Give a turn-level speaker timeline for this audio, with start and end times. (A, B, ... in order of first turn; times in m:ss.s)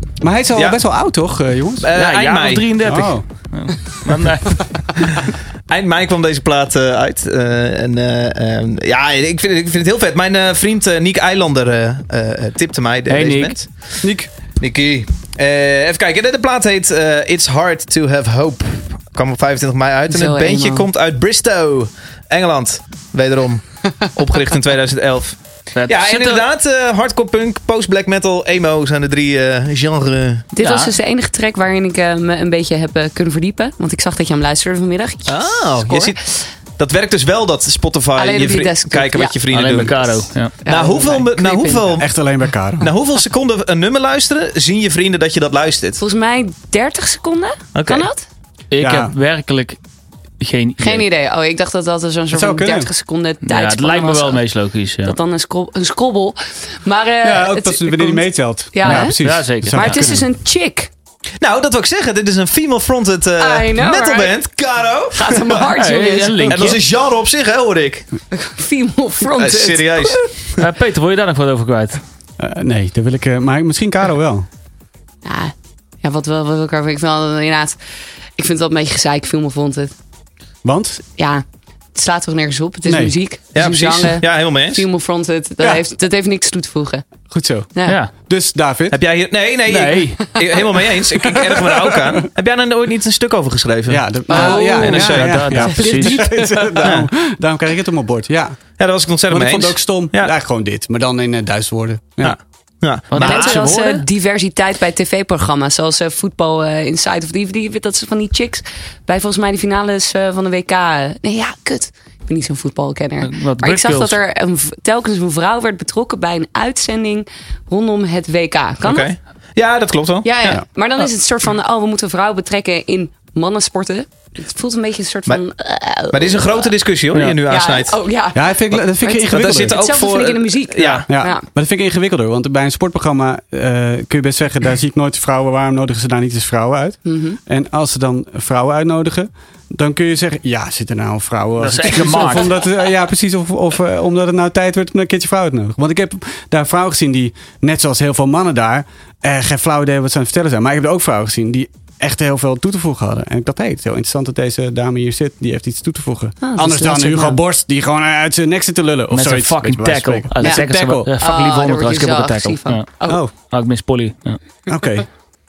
0:00.2-0:01.9 A
0:00.5-0:00.8 B
0:01.8-0:02.7 B
0:02.0-0:05.3 C
0:02.8-0:03.2 A
0:05.1-0:13.8 B
0:13.1-0:13.6 C
0:14.0-0:14.3 A
0:14.6-0:30.5 B
0:20.1-0:20.9 D
0:25.8-0:26.4 C
0:30.6-0:36.5 D
0:30.6-0:30.9 C
0:35.3-0:36.2 B
0:36.8-0:42.1 B
0:38.2-0:39.4 D
0:39.5-0:40.5 C
0:40.6-0:42.0 D
0:42.0-0:42.9 A
0:42.8-0:46.0 B
0:46.0-0:48.3 D
0:47.8-0:48.1 B
0:48.7-0:49.8 C
0:48.8-0:49.1 A
0:50.4-0:51.1 C
0:50.8-0:54.4 D
0:52.3-0:52.9 A
0:53.4-0:55.2 C
0:55.0-1:00.9 D
0:57.2-1:00.3 A
0:58.8-1:00.1 C
1:01.4-1:05.7 B
1:03.4-1:04.4 D
1:05.1-1:06.8 D
1:05.8-1:06.8 C
1:06.4-1:08.1 B
1:08.3-1:10.3 D
1:09.3-1:10.7 B
1:10.6-1:12.0 C
1:12.4-1:14.5 A
1:15.2-1:17.8 D
1:18.4-1:19.9 D
1:20.6-1:21.0 A
1:21.2-1:21.4 D
1:21.9-1:27.1 D
1:22.9-1:23.1 A
1:23.5-1:24.8 B
1:27.3-1:29.0 A
1:27.7-1:28.0 D
1:28.9-1:35.5 B
1:29.7-1:30.4 C
1:31.7-1:32.2 A
1:33.9-1:38.6 A
1:34.3-1:36.7 D
1:34.4-1:36.4 C
1:36.8-1:37.1 B
1:38.8-1:40.3 B
1:39.3-1:42.4 A
1:42.2-1:43.7 B
1:43.1-1:44.0 C
1:43.2-1:59.1 D
1:53.2-1:54.2 C
1:58.8-2:00.6 B
2:00.2-2:06.7 D
2:06.1-2:08.0 B
2:07.1-2:07.4 C
2:07.5-2:11.4 D
2:08.4-2:09.8 A
2:08.7-2:11.1 B
2:11.1-2:41.1 A
2:17.0-2:17.4 D
2:21.6-2:22.7 C
2:36.4-2:37.4 D
2:39.1-2:44.4 C
2:40.4-2:40.6 D
2:41.2-2:43.2 D
2:44.7-2:45.1 A